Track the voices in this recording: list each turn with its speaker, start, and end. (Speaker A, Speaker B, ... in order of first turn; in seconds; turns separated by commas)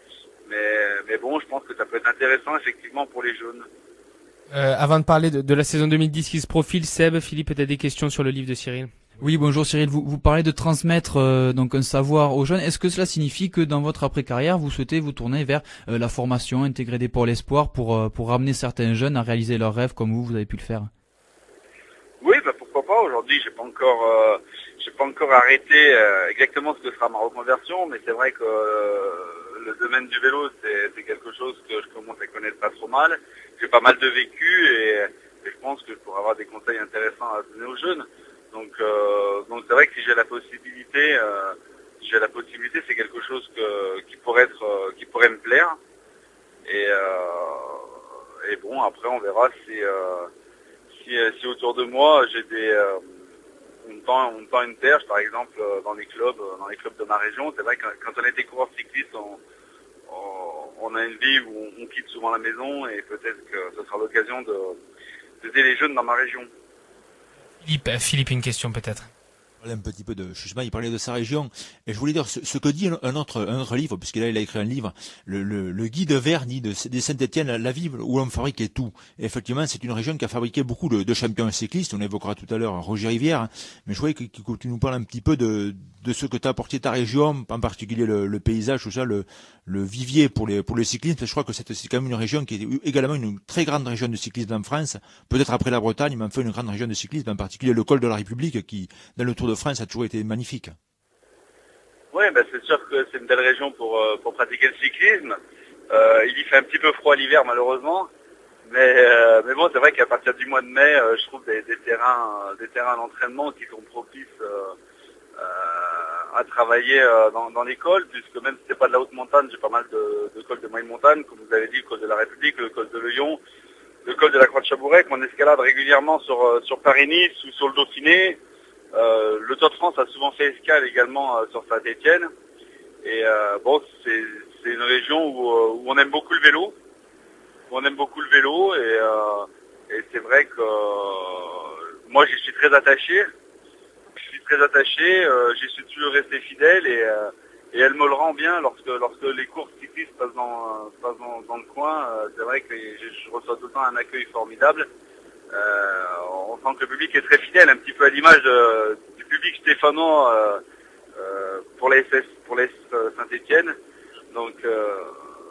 Speaker A: 0.5-3.7, Speaker B: 4.5-8.9, Speaker C: 9.2-20.9, Speaker A: 22.2-45.8, Speaker A: 46.7-47.9, Speaker A: 48.4-50.3, Speaker A: 50.9-53.0, Speaker A: 53.9-59.4, Speaker A: 60.1-64.8, Speaker A: 65.4-66.5, Speaker B: 67.6-69.1, Speaker D: 69.6-100.8, Speaker A: 102.1-105.4, Speaker A: 105.9-108.1, Speaker A: 108.7-114.8, Speaker A: 115.4-123.4, Speaker A: 124.0-128.4, Speaker A: 128.9-132.3, Speaker A: 133.0-136.7, Speaker A: 137.7-143.3, Speaker A: 144.2-154.9, Speaker A: 155.5-160.6, Speaker A: 161.2-163.8, Speaker A: 164.3-165.1